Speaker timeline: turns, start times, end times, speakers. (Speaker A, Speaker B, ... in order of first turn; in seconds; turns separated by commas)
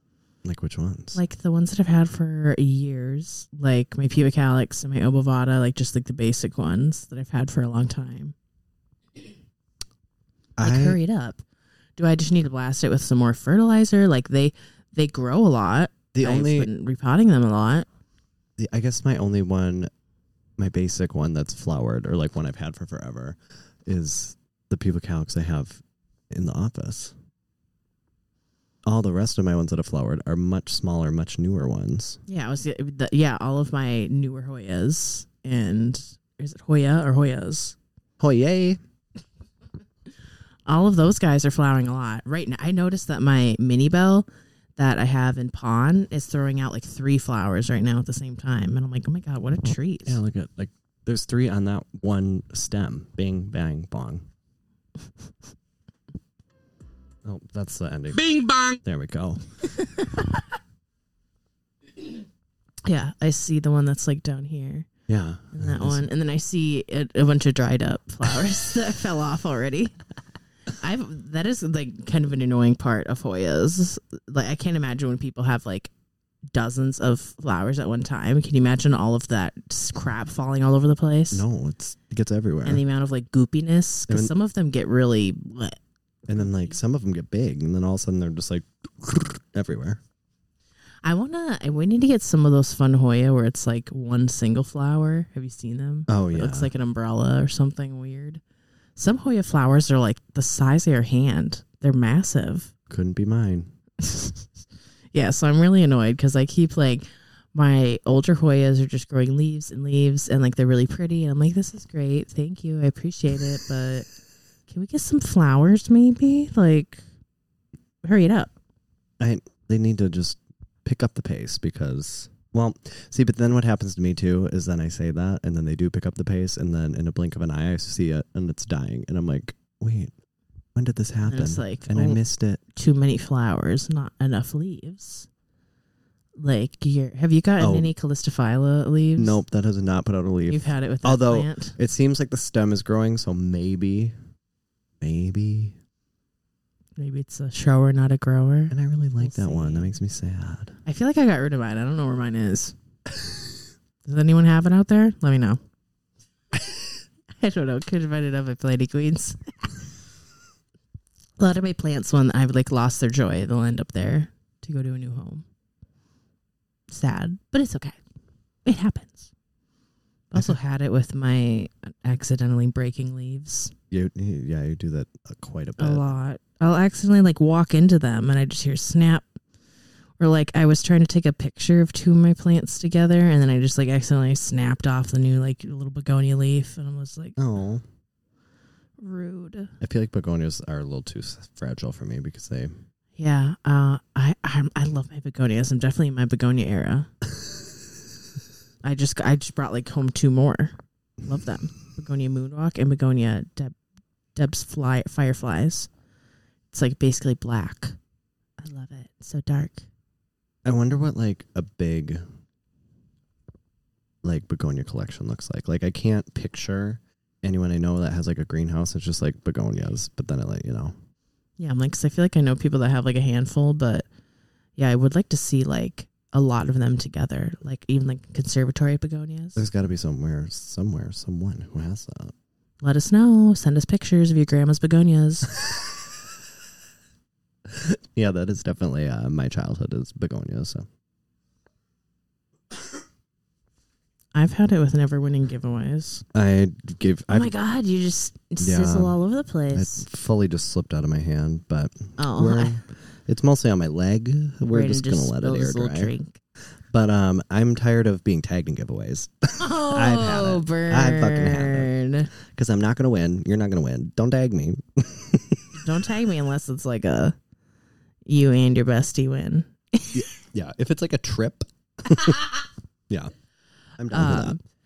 Speaker A: 0.4-1.2, Speaker B: 1.1-8.3, Speaker A: 10.6-11.0, Speaker B: 10.6-11.4, Speaker B: 12.0-17.9, Speaker A: 16.1-16.7, Speaker A: 18.6-19.9, Speaker A: 20.6-27.1, Speaker A: 28.9-32.2, Speaker B: 32.3-37.8, Speaker A: 38.2-38.8, Speaker B: 40.6-44.2, Speaker B: 44.8-50.2, Speaker A: 50.0-54.2, Speaker A: 57.2-59.5, Speaker B: 59.9-60.2, Speaker B: 62.9-64.9, Speaker A: 65.1-66.0, Speaker B: 65.5-70.0, Speaker B: 70.8-75.9, Speaker B: 76.5-81.4, Speaker A: 81.3-82.8, Speaker B: 82.6-85.8, Speaker A: 86.3-90.0, Speaker B: 91.0-98.4, Speaker A: 96.1-96.7, Speaker B: 99.0-102.7, Speaker A: 102.9-103.7, Speaker B: 104.0-104.5, Speaker B: 105.1-114.1, Speaker B: 114.7-117.0, Speaker B: 118.0-118.5, Speaker A: 119.2-130.1, Speaker A: 130.7-132.6, Speaker B: 131.2-132.2, Speaker B: 132.7-135.3, Speaker B: 136.4-139.4, Speaker A: 137.6-137.9, Speaker A: 139.2-144.2, Speaker B: 140.5-141.8, Speaker A: 145.0-145.8, Speaker B: 147.0-150.0, Speaker A: 148.7-150.8, Speaker B: 150.8-152.7, Speaker B: 154.0-155.6, Speaker B: 157.4-159.4, Speaker B: 161.4-165.4, Speaker B: 166.9-168.0, Speaker B: 168.6-169.3, Speaker B: 170.3-173.7, Speaker A: 173.9-176.2, Speaker B: 175.8-179.2, Speaker B: 180.2-187.4, Speaker A: 187.4-187.8, Speaker B: 189.0-189.7, Speaker A: 189.8-192.7, Speaker B: 193.2-197.1, Speaker B: 198.8-203.7, Speaker B: 204.3-205.9, Speaker B: 206.7-207.9, Speaker B: 208.6-209.8, Speaker A: 210.6-212.2, Speaker A: 214.2-220.9, Speaker B: 221.6-224.1, Speaker B: 224.8-229.6, Speaker A: 229.6-232.3, Speaker B: 232.8-235.5, Speaker A: 237.7-240.9, Speaker B: 244.3-246.2, Speaker A: 246.3-247.5, Speaker B: 247.3-250.1, Speaker A: 248.6-249.2, Speaker A: 249.7-256.1, Speaker B: 252.2-252.8, Speaker B: 254.7-256.4, Speaker A: 256.9-261.9, Speaker B: 259.5-262.3, Speaker A: 262.4-265.8, Speaker B: 265.7-267.4, Speaker B: 268.2-270.2, Speaker A: 270.1-272.5, Speaker A: 274.0-274.6, Speaker B: 274.1-274.6